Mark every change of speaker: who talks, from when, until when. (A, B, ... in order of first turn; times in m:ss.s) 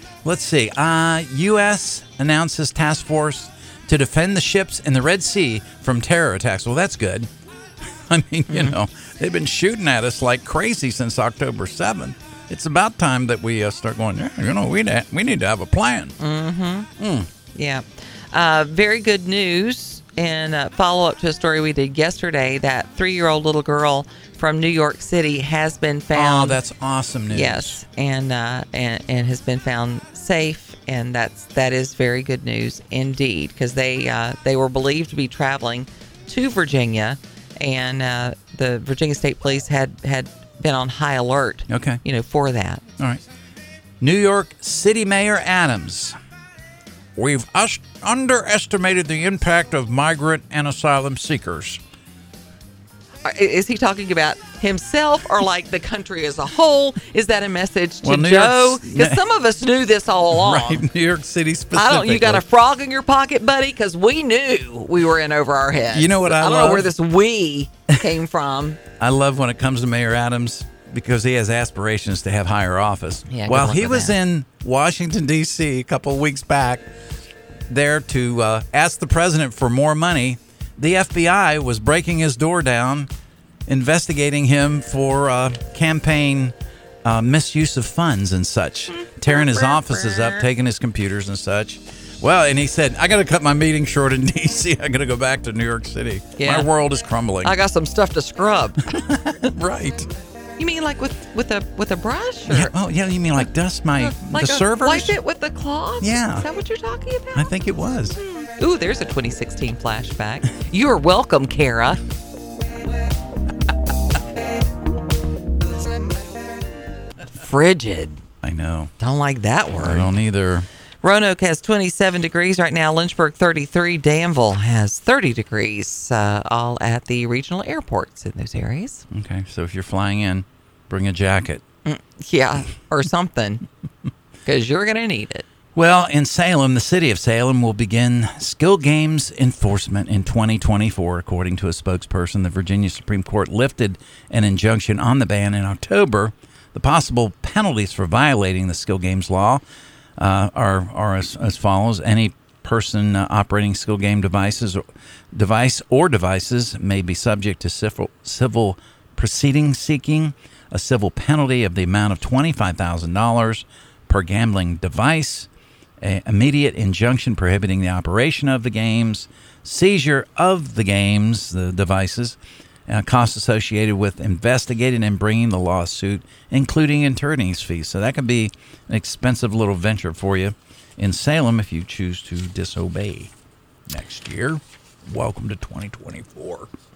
0:00.2-0:07.3 A
0:07.9-0:16.2 A
0:08.5-0:08.8 B
0:16.2-0:16.9 B
0:17.0-0:17.3 A
0:17.6-0:26.6 B
0:26.1-0:27.8 A
0:27.3-0:42.8 B
0:41.7-0:42.0 A
0:43.0-0:43.2 A
0:44.0-0:46.2 A
0:47.2-0:51.8 A
0:53.2-1:00.8 B
0:58.0-0:59.2 A
1:00.3-1:02.4 A
1:01.7-1:08.8 B
1:05.9-1:06.9 A
1:09.0-1:16.9 A
1:13.3-1:14.2 B
1:17.7-1:23.1 A
1:23.7-1:37.6 A
1:29.0-1:30.5 B
1:36.4-1:36.7 B
1:37.4-1:38.9 B
1:38.9-1:40.1 A
1:40.6-1:42.8 B
1:42.5-1:45.2 A
1:44.0-1:47.5 B
1:46.0-1:46.5 A
1:47.4-1:48.2 A
1:48.2-1:52.0 B
1:57.4-1:58.2 B
1:58.4-1:58.9 A
1:59.0-2:00.1 B
1:59.8-2:00.7 A
2:01.0-2:09.0 B
2:09.1-2:11.6 A
2:11.8-2:13.7 B
2:14.5-2:15.4 B
2:15.8-2:29.6 A
2:30.2-2:45.5 A
2:46.0-3:03.3 A
3:03.9-3:06.7 A